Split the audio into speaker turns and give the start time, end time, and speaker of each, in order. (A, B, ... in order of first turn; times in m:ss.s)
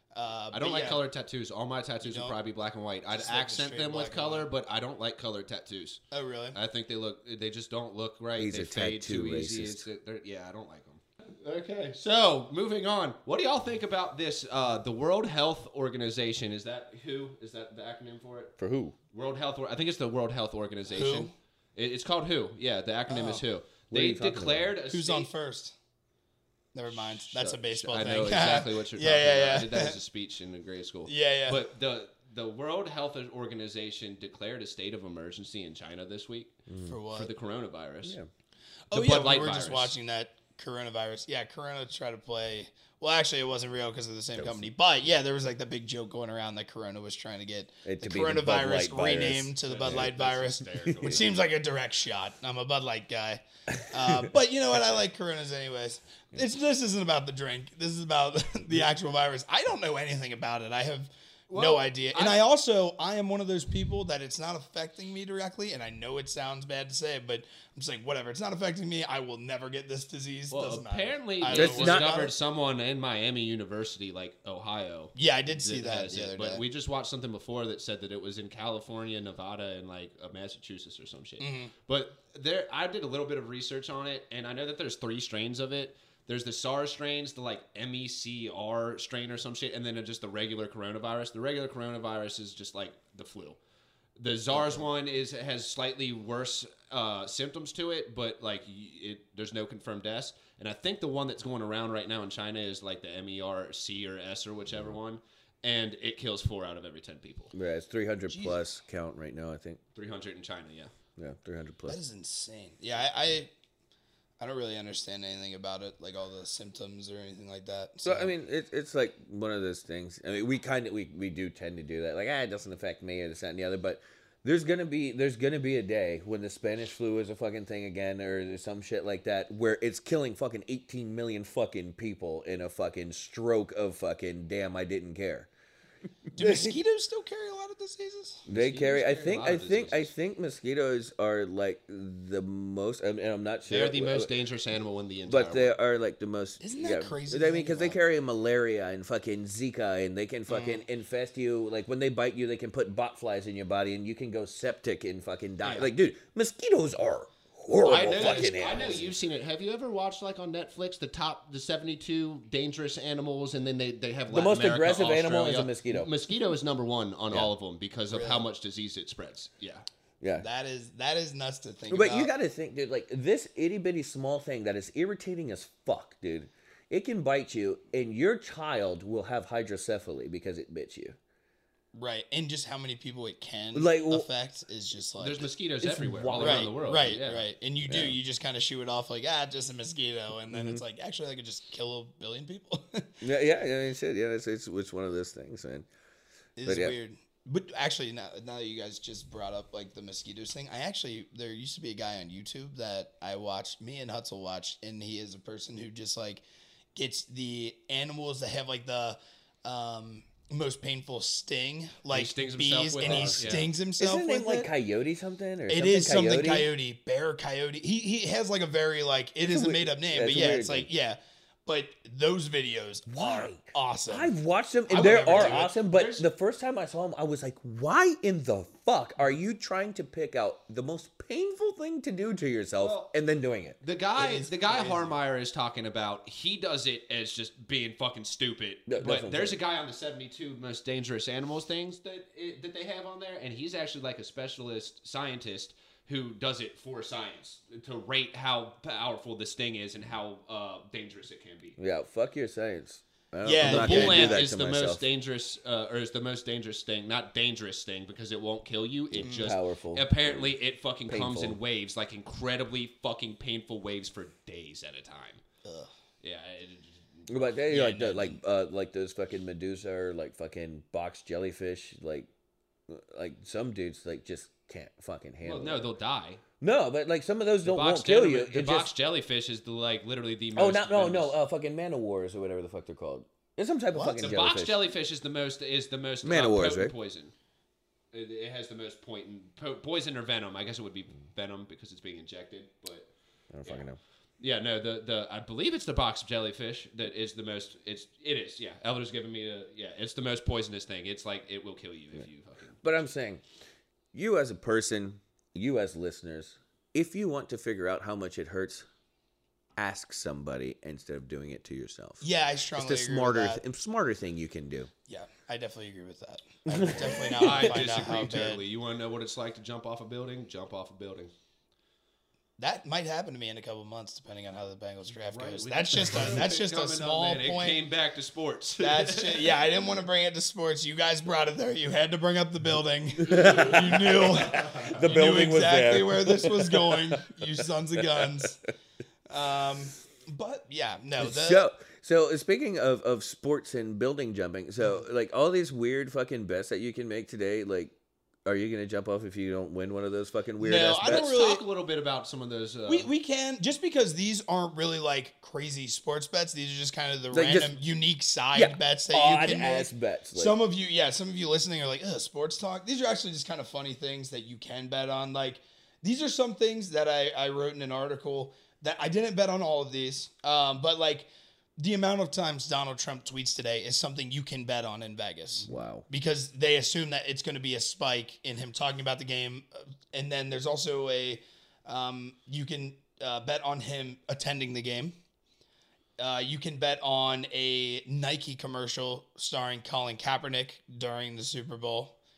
0:00.1-0:01.0 A
0:00.5-0:06.0 B
0:02.0-0:02.4 A
0:03.1-0:04.5 A
0:06.1-0:06.6 A
0:06.5-0:18.5 B
0:08.4-0:09.9 C
0:18.6-0:18.9 C
0:19.1-0:25.3 B
0:20.9-0:21.3 A
0:23.1-0:23.4 A
0:23.9-0:24.7 C
0:24.9-0:25.7 A
0:26.7-0:30.0 A
0:27.2-0:38.2 B
0:31.1-0:31.6 A
0:36.7-0:36.9 C
0:36.8-0:37.3 A
0:38.9-1:12.3 A
0:38.9-0:39.9 B
0:44.4-0:44.7 C
0:47.8-0:50.1 C
0:49.6-0:51.3 B
0:53.7-0:54.3 C
1:01.5-1:02.4 B
1:10.5-1:33.6 B
1:11.5-1:12.2 C
1:15.2-1:16.6 A
1:21.4-1:21.7 A
1:34.2-1:47.5 B
1:34.5-1:34.8 C
1:47.5-1:49.8 C
1:48.3-1:48.6 A
1:49.9-1:50.9 B
1:51.2-1:52.0 C
1:51.9-1:53.5 A
1:54.4-1:58.3 A
1:58.0-2:15.5 C
2:16.3-2:18.4 A
2:16.4-2:16.8 C
2:18.4-2:24.3 C
2:18.5-2:20.1 B
2:23.7-2:25.7 B
2:25.3-2:39.1 C
2:26.6-2:28.0 A
2:30.5-2:30.8 A
2:35.6-2:35.9 B
2:37.8-2:49.8 B
2:38.0-2:38.6 A
2:44.3-2:46.1 C
2:48.1-2:48.4 A
2:50.2-2:50.4 C
2:50.4-2:52.3 A
2:51.9-3:01.2 C
3:01.9-3:05.5 A
3:03.7-3:04.3 C
3:05.2-3:07.5 B
3:05.8-3:06.7 C
3:06.4-3:13.1 A
3:07.9-3:08.2 C
3:10.5-3:10.8 C
3:13.2-3:15.9 C
3:16.6-3:26.4 A
3:16.6-3:16.9 C
3:26.9-3:34.7 A
3:32.1-3:33.7 B
3:33.0-3:36.7 C
3:35.7-3:44.3 A
3:39.4-3:40.9 C
3:43.1-3:53.8 C
3:44.9-3:45.7 A
3:44.9-3:46.2 B
3:52.8-3:53.1 B
3:53.8-4:11.8 B
3:54.2-3:55.1 A
3:58.9-3:59.6 C
4:11.8-4:15.0 C
4:13.4-4:14.4 A
4:13.6-4:25.4 B
4:19.1-4:20.5 C
4:19.2-4:19.5 A
4:21.1-4:21.6 C
4:25.6-4:25.9 A
4:26.2-4:27.3 B
4:27.3-4:32.3 C
4:27.7-4:28.4 A
4:32.9-4:35.9 C
4:35.4-4:36.4 B
4:36.6-4:38.9 C
4:37.6-4:41.3 B
4:40.6-4:44.8 C
4:43.9-4:44.3 A
4:44.2-4:47.3 B
4:46.2-4:46.9 C
4:48.1-4:53.1 B
4:53.5-4:54.0 C
4:54.4-5:02.8 B
5:02.8-5:03.4 C
5:04.1-5:08.9 C
5:09.8-5:14.9 C
5:12.2-5:13.6 A
5:15.1-5:18.6 A
5:16.6-5:17.9 C
5:17.3-5:21.3 B
5:22.6-5:27.8 A
5:25.3-5:29.6 B
5:28.8-5:38.6 A
5:33.2-5:37.4 C
5:34.6-5:34.9 B
5:38.0-5:38.3 C
5:39.3-5:41.6 A
5:41.2-5:47.9 C
5:48.4-5:51.2 C
5:50.6-5:51.6 A
5:51.0-5:53.1 B
5:52.9-6:11.3 A
5:57.3-5:57.7 C
5:58.5-6:00.5 C
6:11.8-6:25.1 A
6:15.6-6:16.0 C
6:26.2-6:32.2 A